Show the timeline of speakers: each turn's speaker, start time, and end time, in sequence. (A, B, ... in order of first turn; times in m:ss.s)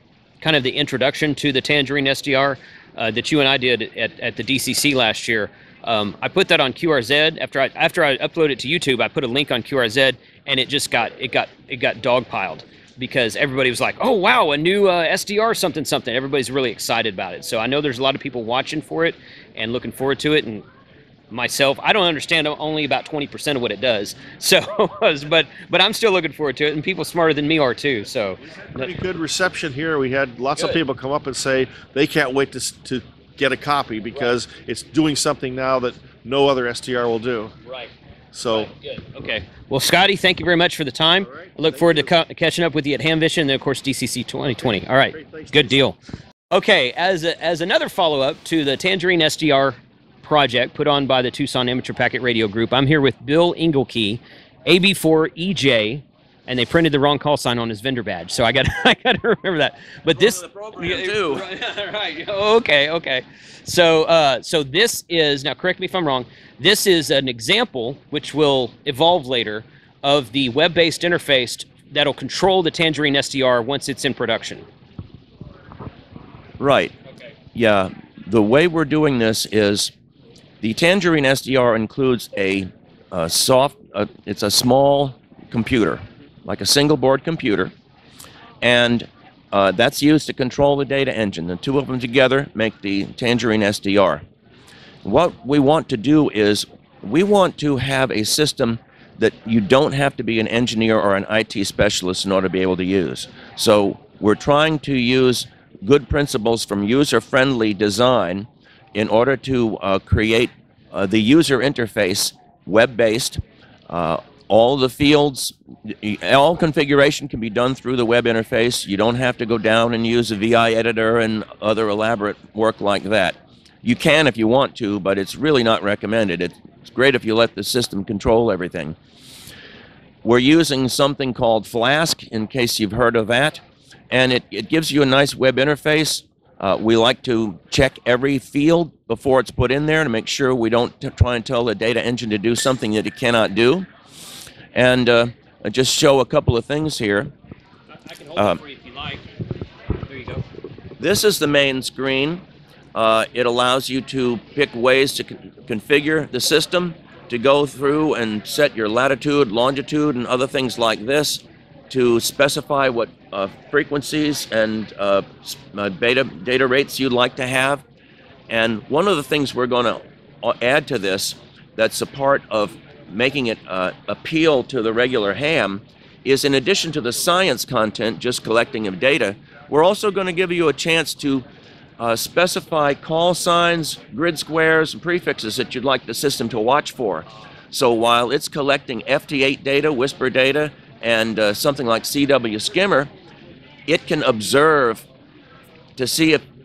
0:00.4-0:20.6 A
0:21.3-0:28.9 A
0:28.6-0:37.5 B
0:37.6-0:37.9 A
0:38.3-0:38.7 B
0:38.5-0:46.0 A
0:41.2-0:42.1 B
0:44.6-0:45.8 B
0:46.5-1:14.7 A
1:00.2-1:01.4 C
1:16.6-1:16.9 C
1:17.5-1:19.9 C
1:20.6-1:27.7 C
1:28.6-1:34.2 C
1:35.0-2:09.0 C
2:10.2-2:23.9 C
2:24.7-2:27.3 C
2:28.0-2:29.2 A
2:30.0-2:30.4 A
2:31.0-2:32.4 C
2:32.9-2:47.8 C
2:48.5-3:01.5 C
3:02.0-3:13.1 C
3:13.9-3:15.1 C
3:16.0-3:16.4 C